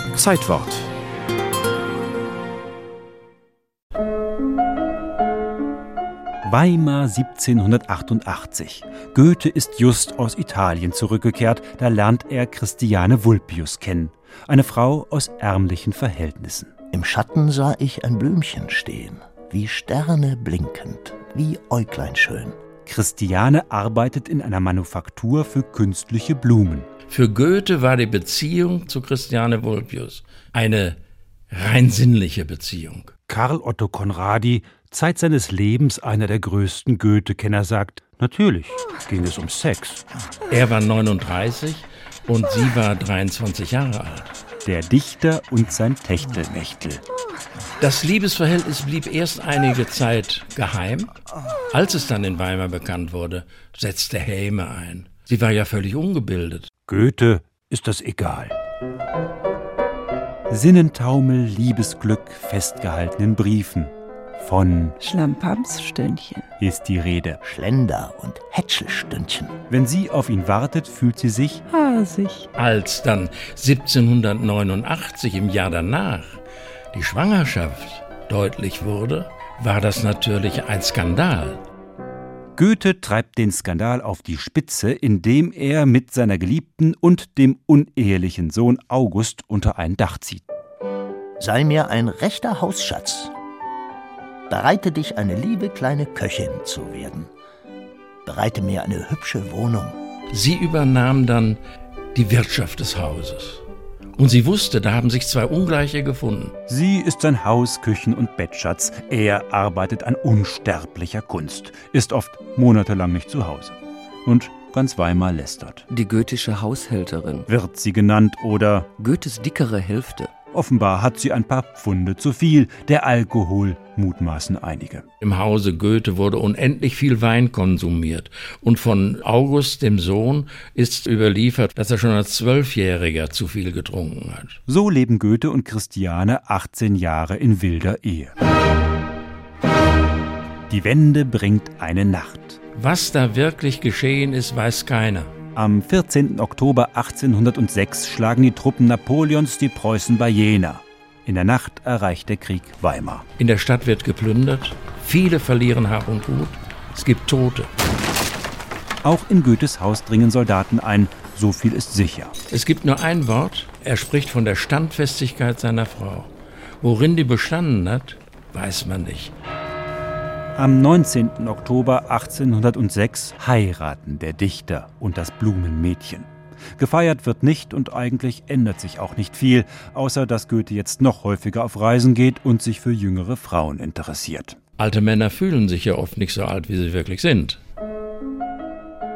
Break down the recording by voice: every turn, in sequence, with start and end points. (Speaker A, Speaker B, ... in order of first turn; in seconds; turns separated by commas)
Speaker A: 6.5-16.7, Speaker B: 16.9-22.6, Speaker A: 22.8-26.9, Speaker C: 27.1-31.0, Speaker C: 31.5-33.1, Speaker A: 33.3-40.0, Speaker C: 40.5-44.3, Speaker A: 44.6-47.0, Speaker C: 47.8-51.1, Speaker C: 51.7-56.7, Speaker A: 56.9-58.5, Speaker A: 60.5-65.0, Speaker D: 65.0-66.5, Speaker A: 66.6-67.4, Speaker B: 67.4-69.6, Speaker A: 69.7-71.6, Speaker D: 71.7-72.5, Speaker C: 72.6-76.4, Speaker C: 76.9-81.6, Speaker A: 82.5-90.4, Speaker B: 91.4-93.3, Speaker B: 94.5-97.3, Speaker B: 98.2-100.0, Speaker C: 100.3-101.6, Speaker C: 102.1-103.6, Speaker C: 104.2-106.5, Speaker A: 106.7-115.8, Speaker E: 115.9-117.5, Speaker A: 117.5-118.9, Speaker E: 119.0-120.3, Speaker A: 120.5-125.0, Speaker C: 125.2-134.6, Speaker A: 134.7-138.3, Speaker A: 140.7-142.6, Speaker C: 142.8-145.3, Speaker A: 145.6-153.2, Speaker C: 153.4-157.7, Speaker A: 159.0-162.3, Speaker C: 162.5-166.3, Speaker C: 166.8-169.3, Speaker A: 170.6-184.6, Speaker C: 184.8-187.6